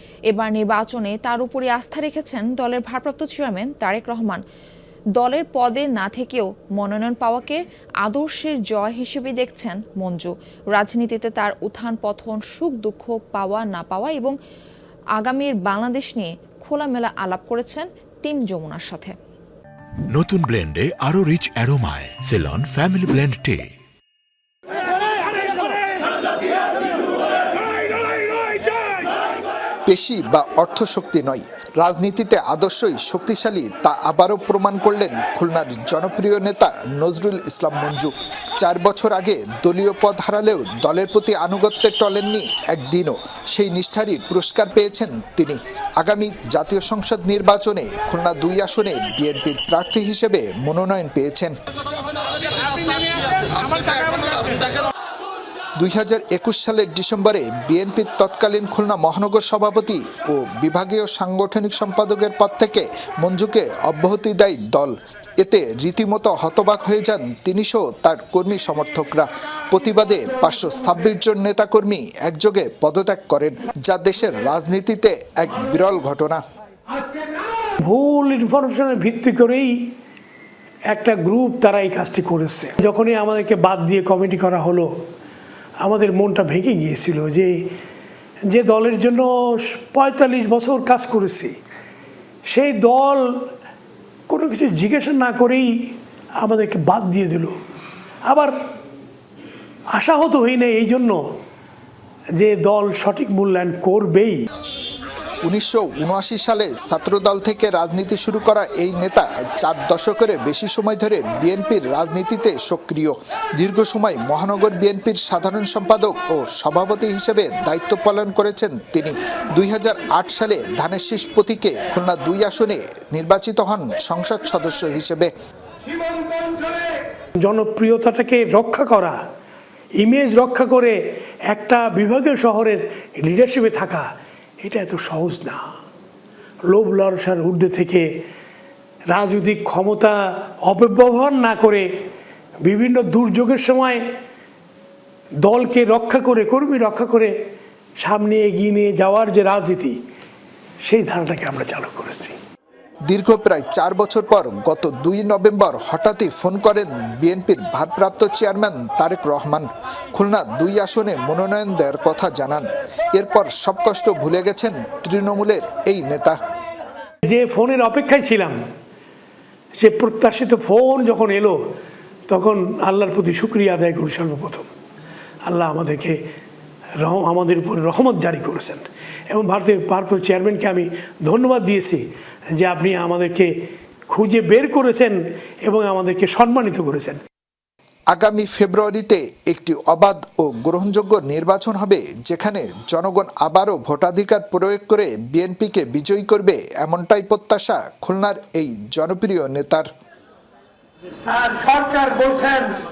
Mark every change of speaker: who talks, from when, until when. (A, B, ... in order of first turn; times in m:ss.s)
0:00.3-0:04.4 A
0:05.2-0:14.3 A
0:15.2-0:19.1 A
0:20.1-0:23.7 B
0:29.9-0:51.5 C
0:55.8-1:16.4 C
1:17.8-1:19.7 D
1:20.9-1:24.9 D
1:25.8-1:27.5 D
1:28.5-1:31.6 D
1:32.5-1:33.2 D
1:34.3-1:35.7 D
1:36.4-1:37.6 D
1:38.3-1:38.5 D
1:39.9-1:41.2 D
1:42.4-1:44.4 D
1:45.4-2:05.3 C
2:07.4-2:09.2 D
2:10.0-2:10.9 D
2:11.5-2:14.0 D
2:14.6-2:15.6 D
2:16.7-2:18.1 D
2:19.1-2:21.9 D
2:22.6-2:24.0 D
2:25.4-2:27.3 D
2:28.0-2:30.0 D
2:30.8-2:32.4 D
2:33.1-2:46.4 C
2:47.3-2:48.5 D
2:49.8-2:51.6 D
2:52.3-2:54.7 D
2:55.5-2:56.2 D
2:57.0-3:02.0 D
3:02.6-3:03.5 D
3:04.1-3:07.2 D
3:08.1-3:19.9 C